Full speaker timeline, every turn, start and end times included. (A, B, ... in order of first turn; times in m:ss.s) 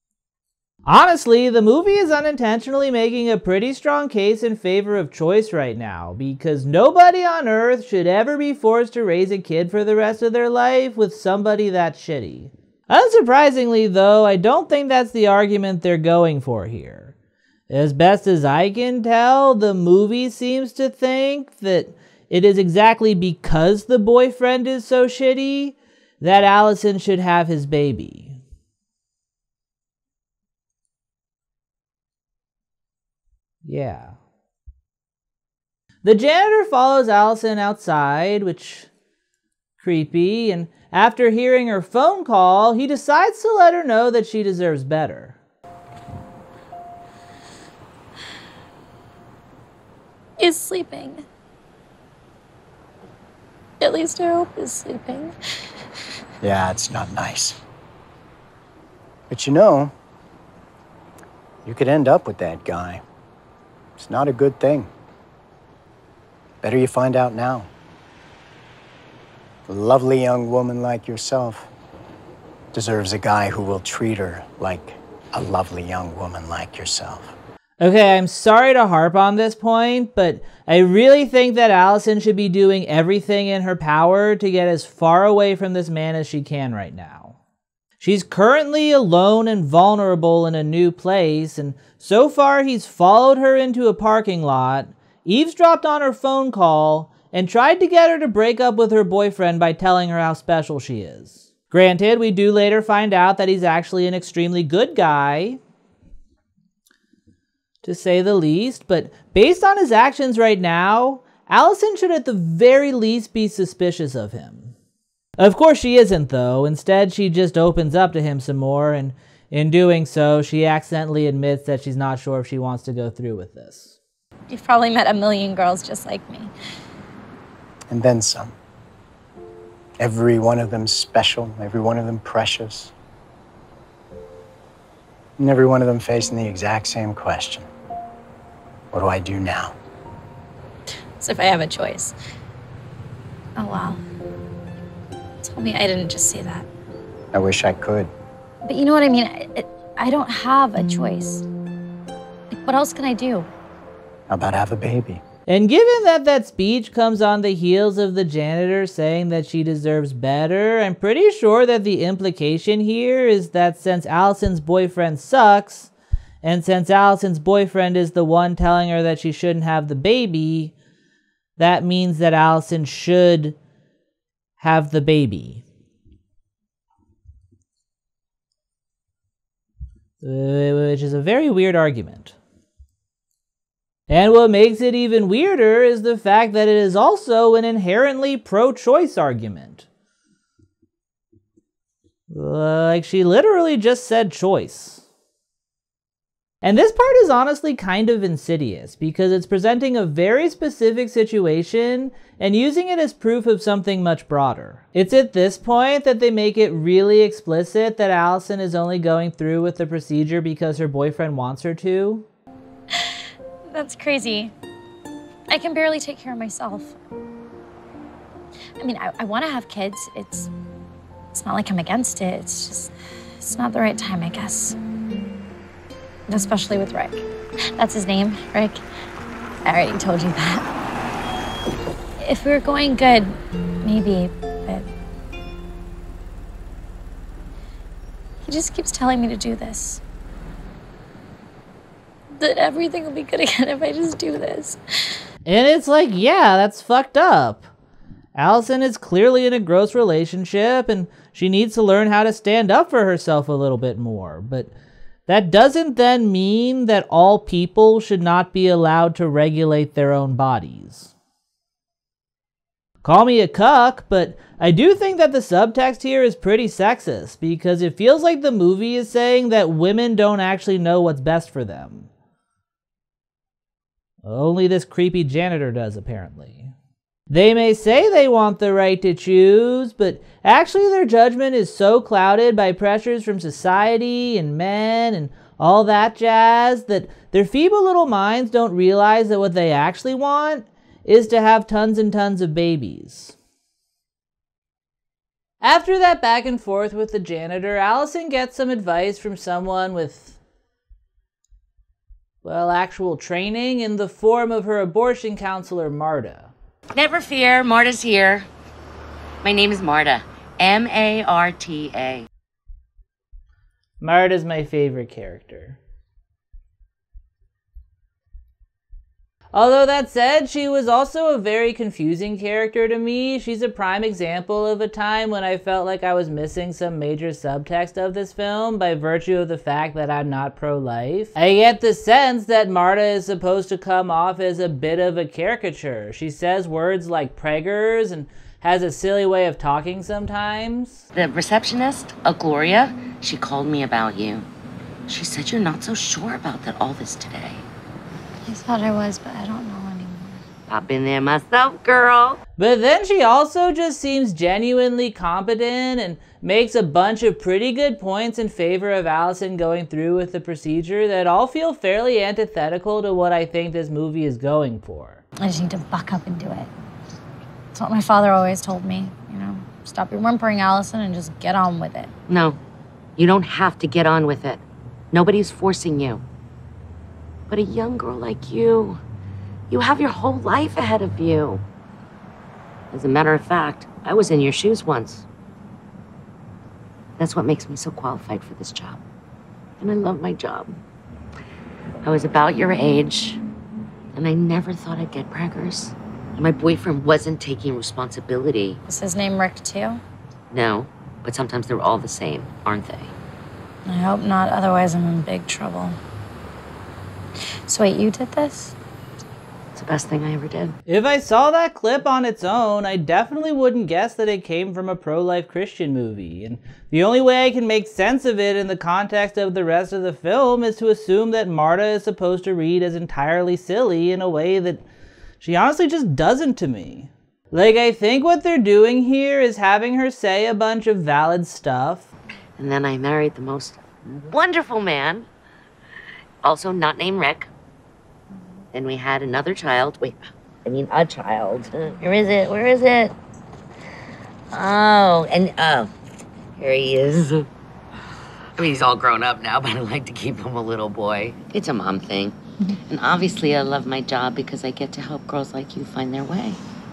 0:00.8-0:17.1 A
0:17.7-0:28.4 A
0:33.6-0:34.2 A
0:36.0-0:38.9 A
0:39.8-0:45.4 A
0:50.4-0:51.2 B
0:53.8-0:55.3 B
0:56.4-0:57.6 C
0:59.3-0:59.9 C
1:01.6-1:03.0 C
1:04.0-1:04.9 C
1:06.6-1:07.7 C
1:09.7-1:11.7 C
1:12.7-1:17.3 C
1:17.8-1:27.4 A
1:28.0-1:45.6 A
1:47.8-1:54.7 A
1:55.4-2:04.0 A
2:04.5-2:06.5 B
2:07.9-2:08.5 C
2:10.0-2:12.9 C
2:15.4-2:17.7 C
2:18.9-2:19.7 C
2:21.2-2:22.1 B
2:23.6-2:24.0 B
2:25.4-2:26.7 B
2:27.3-2:28.1 C
2:28.6-2:31.4 B
2:32.5-2:33.5 B
2:34.3-2:35.2 C
2:35.5-2:45.9 A
2:46.4-2:50.7 A
2:51.6-2:53.6 A
2:54.6-2:55.6 A
3:00.2-3:02.3 A
3:04.1-3:09.9 A
3:12.3-3:15.0 A
3:16.6-3:32.2 A
3:33.7-3:34.5 B
3:35.5-3:36.9 B
3:38.8-3:40.5 B
3:41.3-3:44.8 B
3:46.3-3:47.2 B
3:47.8-3:48.8 B
3:49.6-3:50.7 B
3:52.2-3:54.9 B
3:58.4-4:00.0 B
4:02.4-4:04.8 B
4:05.4-4:07.7 A
4:08.3-4:14.7 A
4:15.3-4:21.1 A
4:23.0-4:32.1 A
4:34.2-4:36.7 A
4:37.3-4:53.4 A
4:55.6-5:00.4 A
5:02.4-5:06.5 A
5:06.9-5:08.5 D
5:09.4-5:12.3 D
5:14.0-5:15.8 A
5:19.5-5:41.0 A
5:41.1-5:44.5 D
5:45.1-5:47.6 D
5:48.4-5:50.4 B
5:50.7-5:52.4 D
5:52.6-6:05.2 A
6:05.4-6:06.7 B
6:07.7-6:12.1 B
6:12.3-6:12.6 D
6:13.2-6:16.2 D
6:17.5-6:19.0 D
6:19.7-6:21.6 D
6:22.9-6:25.2 D
6:27.2-6:29.0 D
6:29.8-6:30.8 D
6:32.0-6:33.4 D
6:34.1-6:38.8 D
6:38.9-6:40.0 B
6:40.5-6:43.1 D
6:43.8-6:46.0 B
6:47.7-6:48.8 B
6:49.7-6:50.7 D
6:50.9-7:04.8 A
7:05.4-7:12.1 A
7:12.6-7:15.3 D
7:16.4-7:17.5 D
7:18.7-7:23.1 D
7:24.5-7:25.9 D
7:26.6-7:27.5 D
7:28.6-7:36.6 D